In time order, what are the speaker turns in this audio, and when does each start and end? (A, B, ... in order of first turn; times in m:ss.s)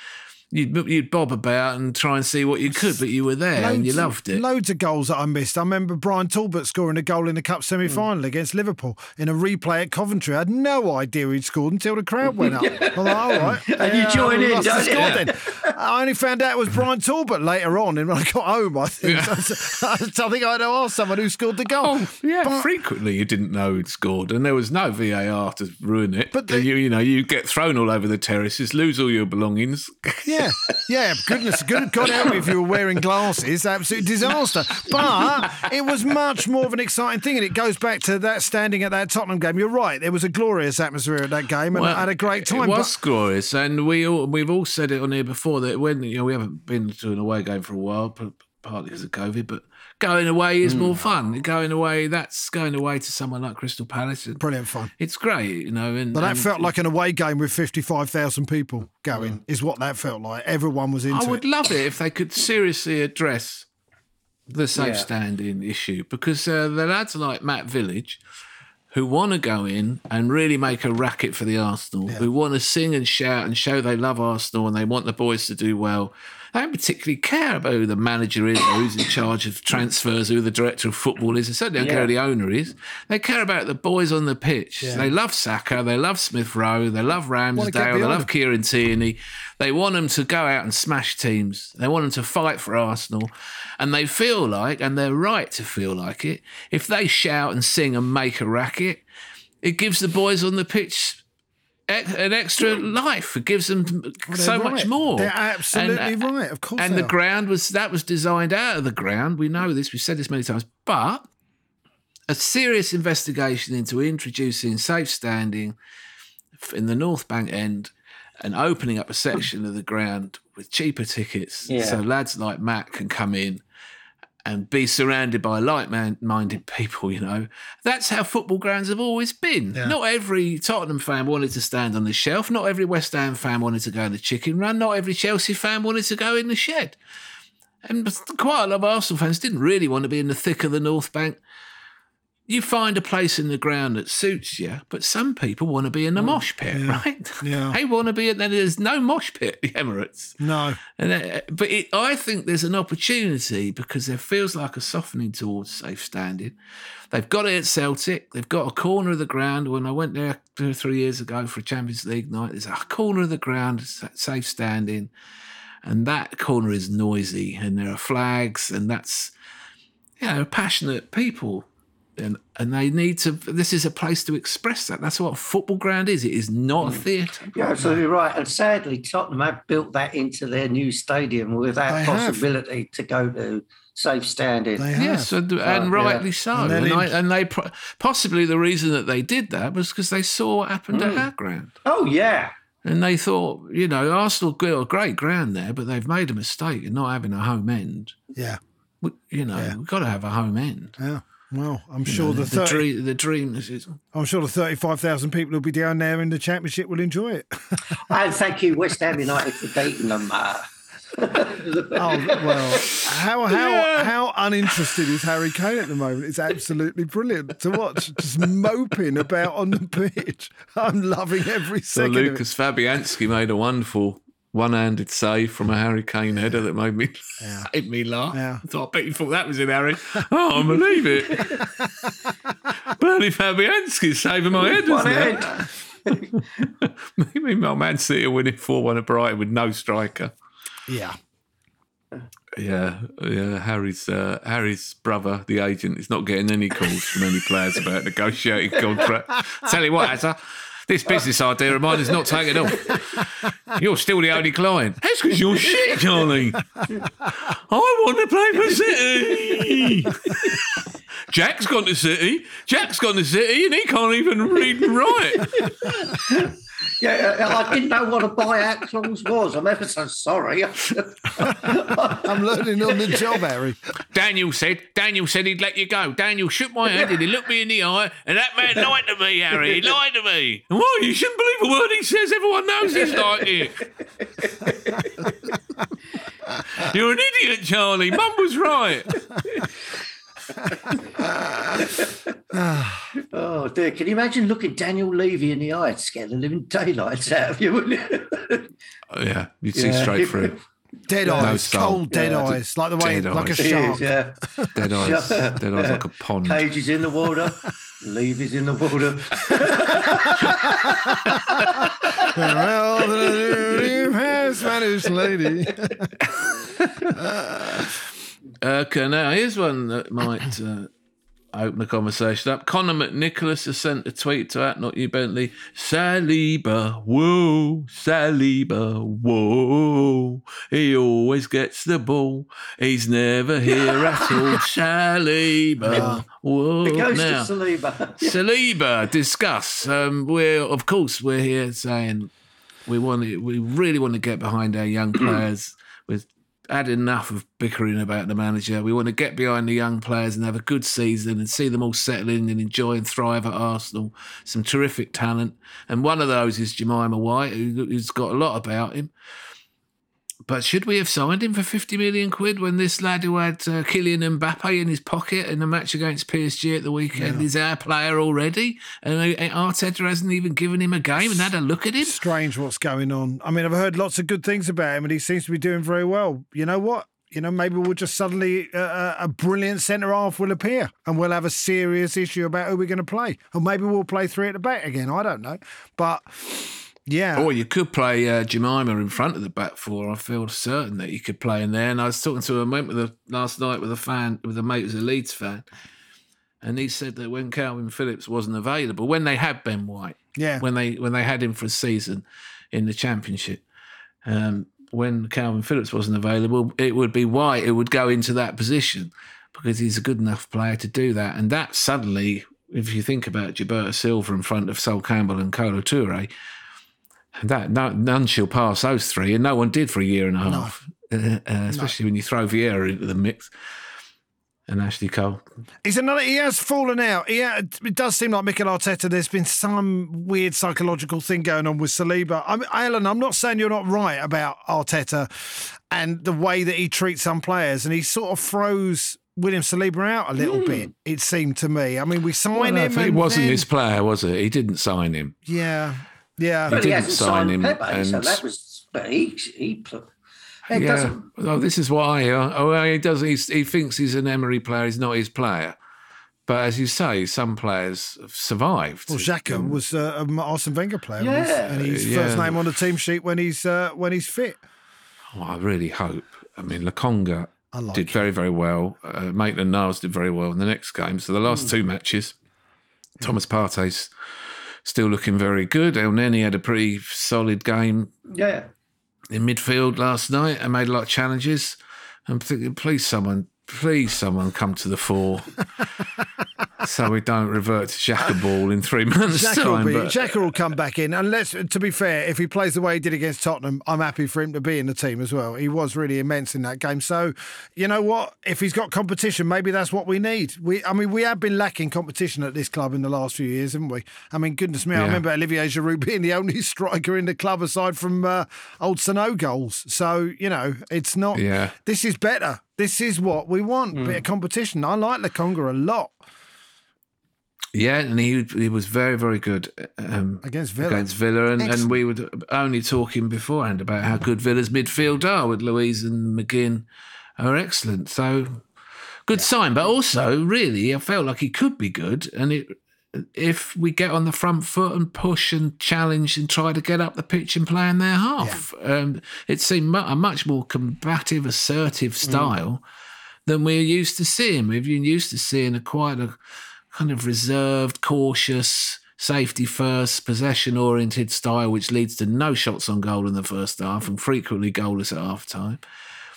0:00.5-0:04.4 A
0:03.6-0:22.7 B
0:12.3-0:15.7 C
0:13.3-0:13.6 A
0:14.6-0:15.3 A
0:19.0-0:19.6 A
0:21.7-0:30.8 A
0:26.3-0:26.7 B
0:30.2-0:42.9 B
0:31.3-0:32.4 A
0:35.2-0:35.7 A
0:41.7-0:54.4 A
0:50.6-0:51.0 C
0:54.4-0:54.9 B
0:55.0-0:56.7 A
0:56.1-1:01.4 B
0:59.1-0:59.4 C
1:01.1-1:03.7 A
1:04.5-1:08.2 A
1:04.8-1:05.1 C
1:08.9-1:39.0 A
1:21.8-1:22.1 C
1:27.6-1:28.3 B
1:39.6-1:41.2 A
1:41.9-1:46.2 A
1:44.3-1:47.1 B
1:46.8-1:51.3 A
1:52.3-1:55.8 A
1:56.6-2:03.6 A
2:01.7-2:02.0 C
2:04.4-2:17.0 A
2:17.8-2:21.4 A
2:22.5-2:30.4 A
2:26.7-2:27.8 B
2:30.4-2:30.8 B
2:31.0-2:36.6 A
2:37.1-2:45.1 A
2:45.8-2:49.3 A
2:50.2-2:58.0 A
2:56.8-3:04.9 C
3:01.9-3:02.5 B
3:04.8-3:05.3 B
3:05.0-3:11.7 A
3:05.6-3:06.2 C
3:06.5-3:07.2 B
3:10.9-3:11.3 C
3:11.8-3:12.5 C
3:12.8-3:18.2 A
3:19.0-3:21.0 A
3:21.0-3:22.9 B
3:22.1-3:24.0 A
3:24.1-3:27.9 B
3:28.0-3:33.1 C
3:32.0-3:42.4 B
3:33.1-3:34.1 A
3:34.7-3:35.0 A
3:41.9-3:51.6 A
3:47.4-3:47.7 B
3:48.3-3:48.6 B
3:51.3-3:51.6 C
3:52.8-3:55.7 A
3:54.6-3:56.3 C
3:56.4-4:00.3 A
4:00.9-4:01.2 B
4:02.6-4:16.8 A
4:11.9-4:13.0 C
4:15.5-4:16.3 C
4:17.3-4:25.6 A
4:19.3-4:20.6 C
4:24.8-4:33.4 C
4:32.2-4:33.8 B
4:34.1-4:43.9 A
4:39.5-4:39.9 C
4:44.2-4:45.3 C
4:46.7-4:49.7 A
4:51.8-4:52.3 C
4:52.5-4:53.1 B
4:53.2-4:58.7 C
4:59.1-5:00.6 A
4:59.7-5:00.6 C
5:01.1-5:04.0 B
5:01.2-5:01.6 C
5:01.4-5:04.0 A
5:02.1-5:02.6 C
5:03.6-5:15.6 C
5:04.7-5:06.7 A
5:12.3-5:16.1 B
5:16.4-5:17.1 A
5:17.2-5:17.9 B
5:18.6-5:20.9 A
5:21.5-5:37.5 A
5:33.7-5:34.6 C
5:35.9-5:36.1 C
5:35.9-5:36.2 B
5:36.8-5:38.4 C
5:38.2-5:42.3 A
5:42.9-5:59.1 A
6:00.5-6:12.2 A
6:07.2-6:07.5 B
6:12.0-6:27.5 B
6:27.4-6:35.7 A
6:36.6-6:43.6 A
6:40.4-6:40.6 B
6:44.2-6:56.3 A
6:57.4-7:03.5 A
7:00.4-7:00.7 B
7:04.7-7:05.4 A
7:05.8-7:23.7 B
7:20.4-7:20.8 C
7:22.5-7:25.4 A
7:25.5-7:26.8 B
7:26.7-7:28.4 A
7:26.7-7:30.1 C
7:30.7-7:31.2 C
7:30.7-7:35.8 A
7:36.5-7:39.8 A
7:39.1-7:44.6 B
7:41.2-7:42.0 C
7:41.8-7:42.7 A
7:45.3-7:52.4 A
7:47.7-7:48.2 B
7:53.2-7:54.1 A
7:54.8-7:58.1 A
7:58.3-7:58.7 C
7:59.3-8:05.7 A
8:06.8-8:10.3 A
8:09.3-8:36.2 B
8:24.9-8:25.2 A
8:31.3-8:31.7 A
8:33.9-8:34.2 C
8:37.7-8:46.9 A
8:40.4-8:41.0 B
8:41.6-8:41.9 B
8:47.4-8:48.6 A
8:49.3-9:02.8 A
9:02.2-9:02.5 C
9:03.5-9:06.4 A
9:06.9-9:15.8 A